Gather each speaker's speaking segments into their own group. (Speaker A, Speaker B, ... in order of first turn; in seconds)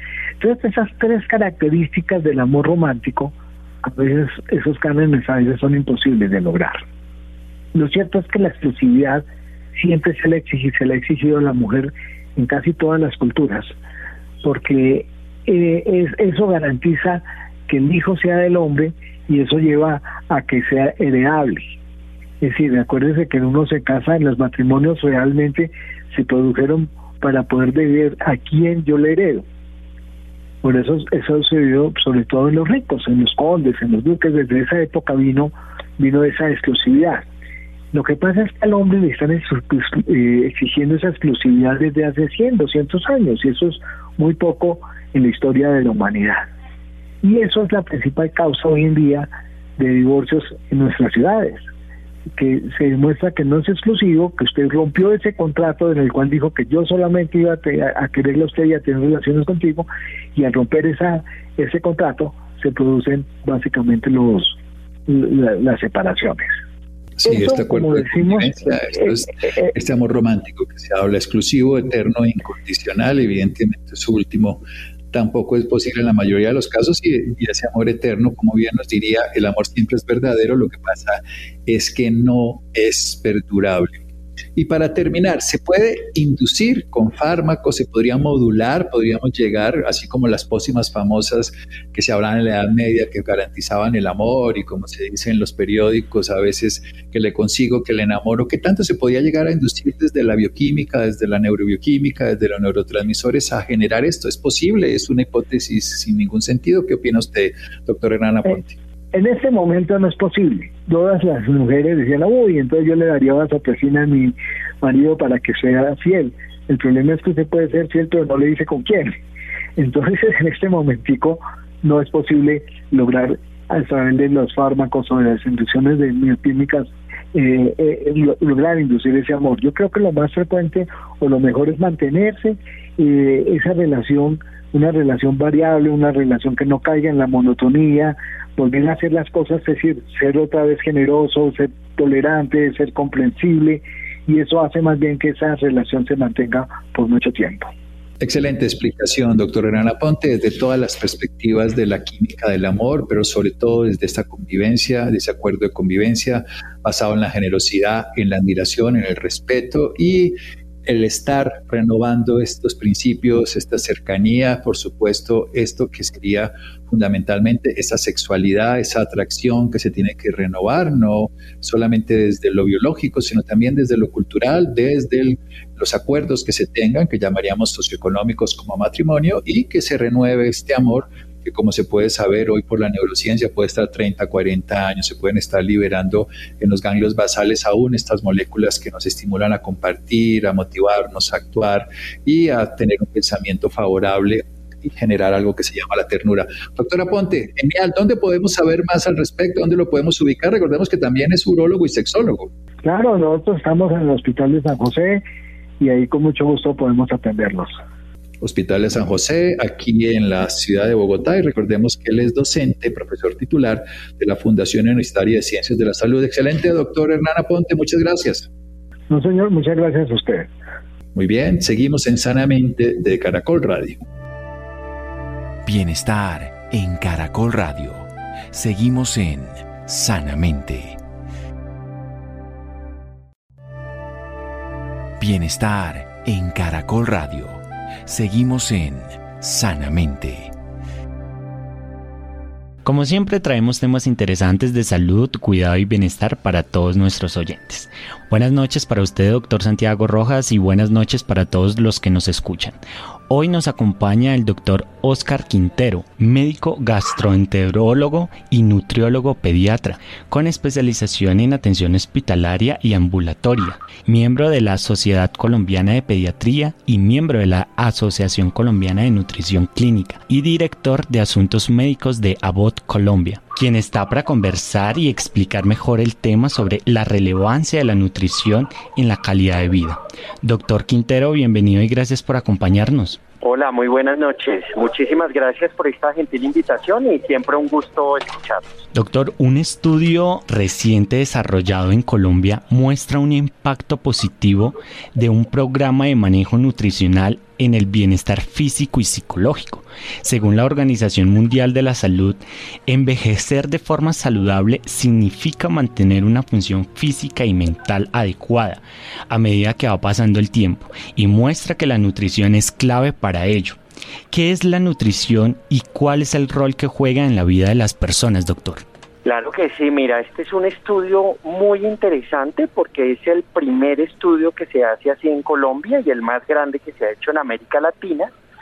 Speaker A: 0.4-3.3, 3.8-6.8, 7.7-13.7, 14.4-21.7, 22.4-29.4, 30.6-37.3, 37.9-46.5, 47.2-51.7, 52.4-64.6, 65.1-66.5, 67.2-69.1, 109.1-119.2, 119.8-147.7, 202.8-205.2, 205.8-207.7, 219.1-220.5
Speaker B: 67.2-84.0, 84.6-108.8, 148.2-202.5, 208.4-218.5, 221.2-224.0
Speaker C: 225.7-231.0, 235.2-240.5
Speaker D: 242.8-252.8, 253.3-283.2, 288.9-313.8, 314.3-318.8
Speaker E: 283.4-288.8, 319.2-328.3